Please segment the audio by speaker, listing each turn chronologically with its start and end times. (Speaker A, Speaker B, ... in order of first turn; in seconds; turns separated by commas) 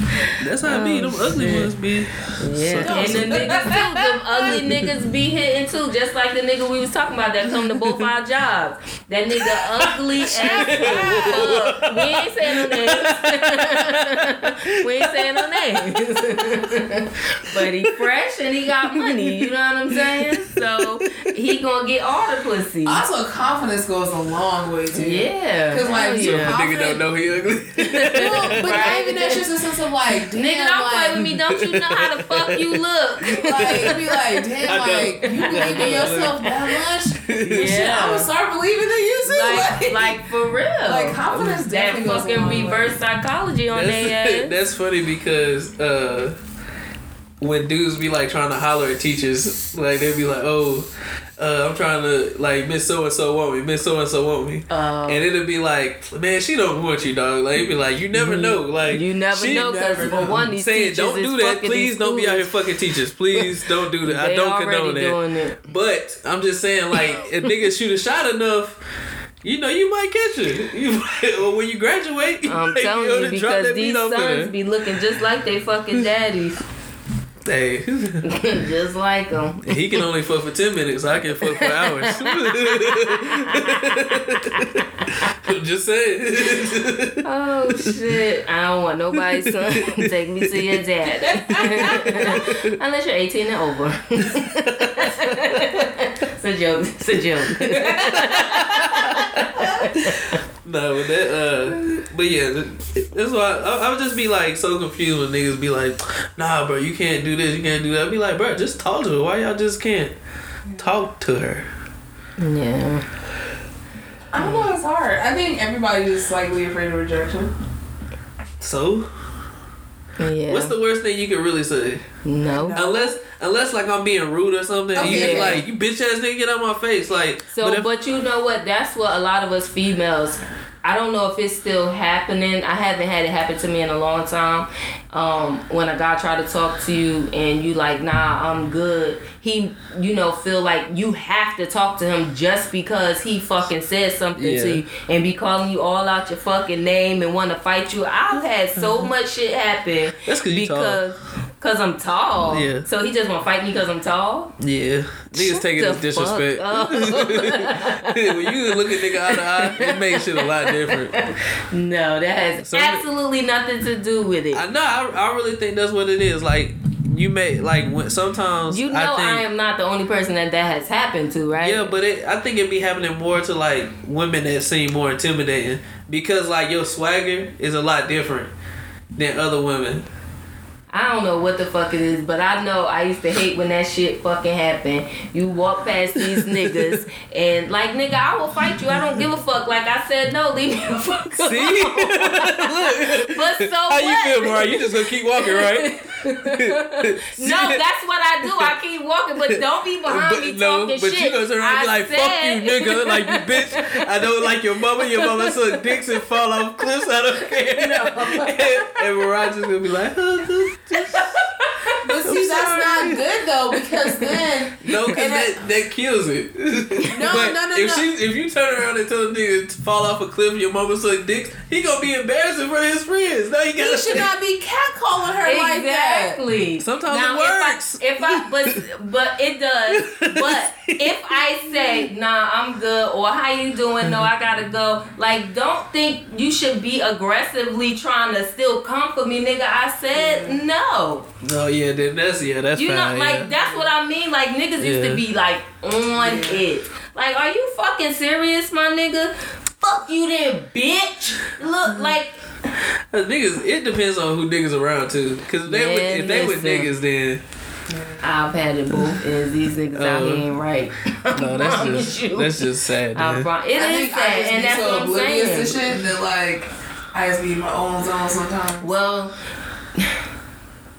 Speaker A: 0.2-1.7, Speaker B: 0.4-4.9, Speaker A: 2.4-23.0, Speaker C: 2.8-3.8, Speaker B: 7.7-8.0, Speaker B: 9.3-16.8, Speaker C: 10.7-11.6, Speaker B: 17.5-18.0, Speaker B: 19.0-21.3, Speaker C: 22.9-27.0, Speaker A: 24.9-26.6, Speaker B: 26.2-29.0, Speaker A: 27.8-29.5, Speaker C: 28.1-31.2, Speaker A: 30.4-36.7, Speaker B: 31.2-34.0, Speaker C: 33.4-40.2, Speaker B: 34.7-36.5, Speaker B: 37.2-37.8, Speaker A: 37.5-38.3, Speaker A: 39.2-44.5, Speaker C: 40.9-42.9, Speaker B: 43.7-46.4, Speaker B: 47.4-50.9, Speaker B: 51.4-68.8, Speaker A: 54.7-55.2, Speaker A: 58.1-62.5, Speaker C: 59.4-60.4, Speaker A: 64.0-65.6, Speaker B: 69.4-74.5, Speaker A: 72.5-76.6, Speaker B: 77.4-78.2, Speaker A: 78.2-80.0, Speaker B: 79.7-87.2, Speaker A: 81.5-85.3, Speaker A: 87.2-100.4, Speaker B: 89.2-90.8, Speaker B: 91.5-92.6, Speaker B: 94.7-95.6, Speaker B: 97.6-110.1, Speaker B: 110.8-111.7, Speaker A: 112.4-113.1, Speaker C: 114.3-117.5, Speaker A: 114.4-114.7, Speaker B: 118.6-119.1, Speaker A: 120.2-120.8, Speaker B: 120.5-122.0, Speaker A: 122.2-122.8, Speaker C: 122.6-123.0, Speaker B: 122.7-127.9, Speaker C: 125.0-125.6, Speaker A: 125.0-125.6, Speaker A: 127.5-154.5, Speaker B: 144.4-144.8, Speaker B: 148.8-149.1, Speaker B: 150.3-151.0, Speaker B: 152.5-152.9, Speaker B: 154.6-161.3, Speaker A: 155.3-164.7, Speaker B: 162.6-163.1, Speaker B: 164.5-169.4, Speaker A: 168.7-171.9, Speaker B: 171.6-178.5, Speaker B: 179.2-180.1, Speaker A: 180.9-204.4, Speaker B: 186.2-187.0, Speaker B: 191.4-197.8, Speaker B: 198.4-198.7, Speaker B: 199.4-211.4, Speaker A: 205.0-206.0, Speaker C: 207.8-208.7, Speaker A: 207.8-209.0, Speaker A: 210.9-212.0, Speaker C: 211.9-215.6, Speaker B: 212.2-213.3, Speaker B: 214.8-224.3, Speaker C: 217.1-218.1, Speaker C: 223.8-226.4, Speaker A: 225.4-241.3, Speaker B: 226.8-228.8, Speaker B: 229.9-231.9, Speaker B: 234.0-234.3, Speaker C: 240.1-240.6, Speaker B: 241.4-243.5, Speaker A: 242.8-252.4, Speaker B: 244.8-245.2, Speaker C: 246.2-246.6, Speaker B: 253.1-257.4, Speaker A: 255.7-256.9, Speaker A: 258.2-266.0, Speaker B: 258.9-259.2, Speaker B: 259.9-260.5, Speaker B: 261.3-263.5, Speaker C: 263.8-268.9, Speaker A: 268.8-269.3